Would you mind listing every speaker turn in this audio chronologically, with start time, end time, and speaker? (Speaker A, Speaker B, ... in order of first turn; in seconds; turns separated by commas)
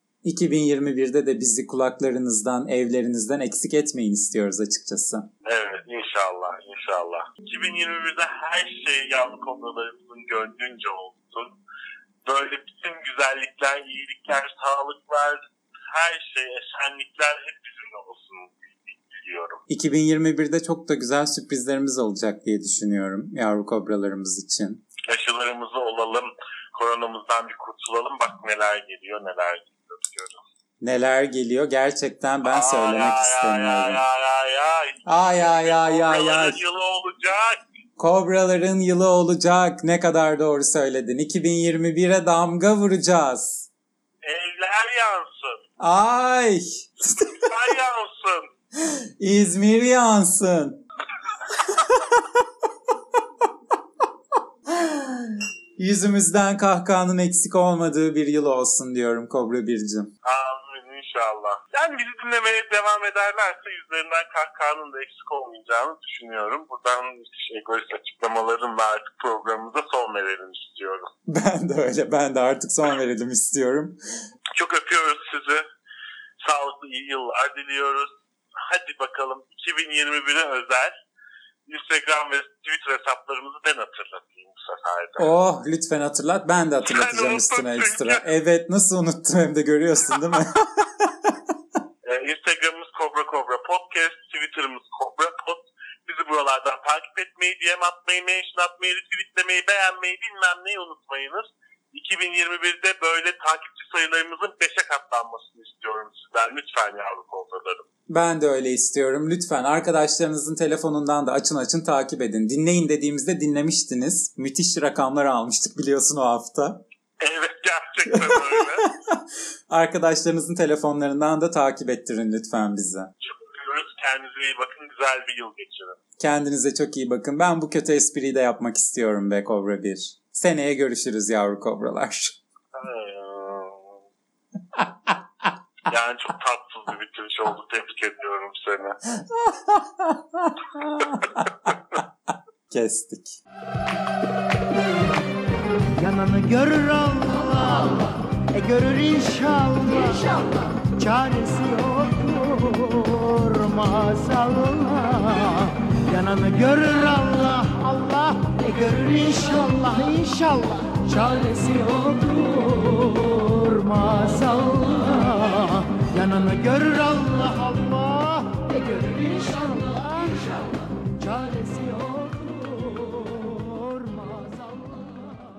Speaker A: 0.2-5.3, Speaker B: 5.4-11.5, Speaker B: 12.2-19.6, Speaker A: 19.7-24.8, Speaker B: 25.1-30.4, Speaker A: 30.8-34.0, Speaker B: 32.5-37.6, Speaker A: 35.0-36.6, Speaker A: 38.0-43.7, Speaker B: 44.2-45.6, Speaker A: 45.8-47.3, Speaker B: 47.3-48.5, Speaker A: 48.8-50.8, Speaker A: 51.5-52.4, Speaker A: 54.7-60.1, Speaker B: 60.2-71.1, Speaker A: 71.3-74.0, Speaker B: 74.5-75.6, Speaker B: 76.4-80.9, Speaker B: 81.7-85.3, Speaker A: 85.2-91.4, Speaker B: 86.9-88.2, Speaker B: 92.0-107.8, Speaker A: 108.1-116.8, Speaker B: 117.2-118.9, Speaker A: 118.1-123.1, Speaker B: 123.2-126.0, Speaker A: 126.2-132.4, Speaker B: 132.7-134.0, Speaker A: 134.8-135.4, Speaker B: 135.9-139.0, Speaker A: 139.2-141.5, Speaker A: 142.7-143.4, Speaker C: 145.9-150.4, Speaker C: 150.9-170.7, Speaker C: 171.2-175.4